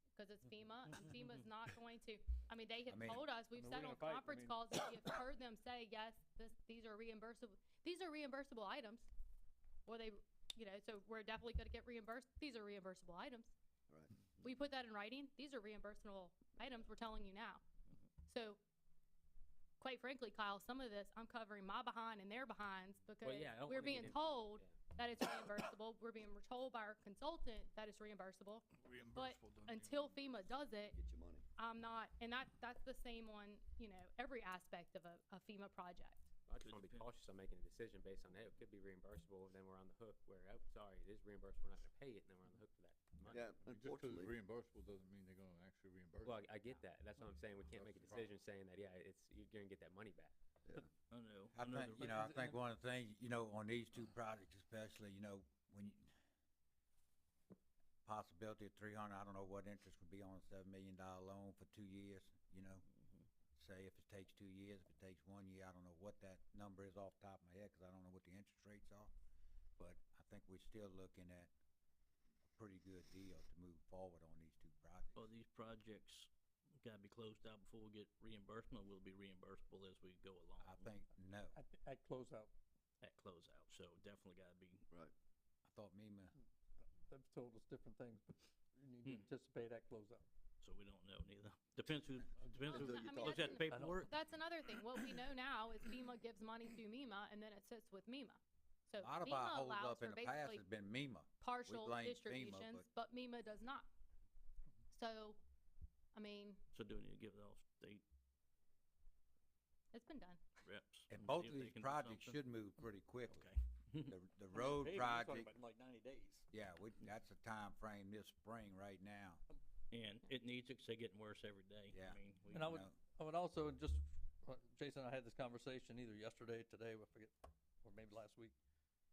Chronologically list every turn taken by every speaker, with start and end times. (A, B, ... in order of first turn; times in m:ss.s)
0:00.2-0:09.1 A
0:02.9-0:03.3 B
0:03.5-0:04.7 C
0:09.8-0:13.5 A
0:14.4-0:17.6 A
0:18.3-0:18.6 A
0:19.8-0:31.0 A
0:23.2-0:24.8 D
0:28.8-0:30.1 E
0:30.9-0:31.4 F
0:31.6-0:36.2 A
0:36.5-0:43.5 D
0:36.6-0:37.1 G
0:43.3-0:46.6 E
0:43.3-0:44.3 F
0:46.2-0:50.3 D
0:47.7-0:48.3 E
0:51.1-0:52.5 G
0:51.5-0:56.1 B
0:58.0-1:02.8 B
1:02.9-1:03.3 G
1:03.6-1:09.1 B
1:09.8-1:11.5 B
1:12.5-1:15.2 B
1:15.1-1:16.3 G
1:16.8-1:21.0 G
1:20.6-1:21.6 B
1:21.5-1:22.5 C
1:23.0-1:24.9 G
1:25.6-1:26.3 B
1:27.0-1:30.2 C
1:30.6-1:34.1 G
1:32.7-1:40.6 A
1:32.7-1:33.6 F
1:33.7-1:34.0 C
1:39.0-1:42.9 B
1:41.4-1:43.9 A
1:44.9-1:45.4 A
1:46.1-1:46.6 A
1:46.7-1:48.0 G
1:49.9-1:50.4 A
1:50.6-1:52.4 G
1:51.1-1:53.5 B
1:53.3-1:54.2 G
1:54.0-1:55.5 B
1:54.5-1:56.4 C
1:56.5-1:59.4 B
1:59.9-2:02.8 G
2:01.9-2:02.9 B
2:02.5-2:08.5 C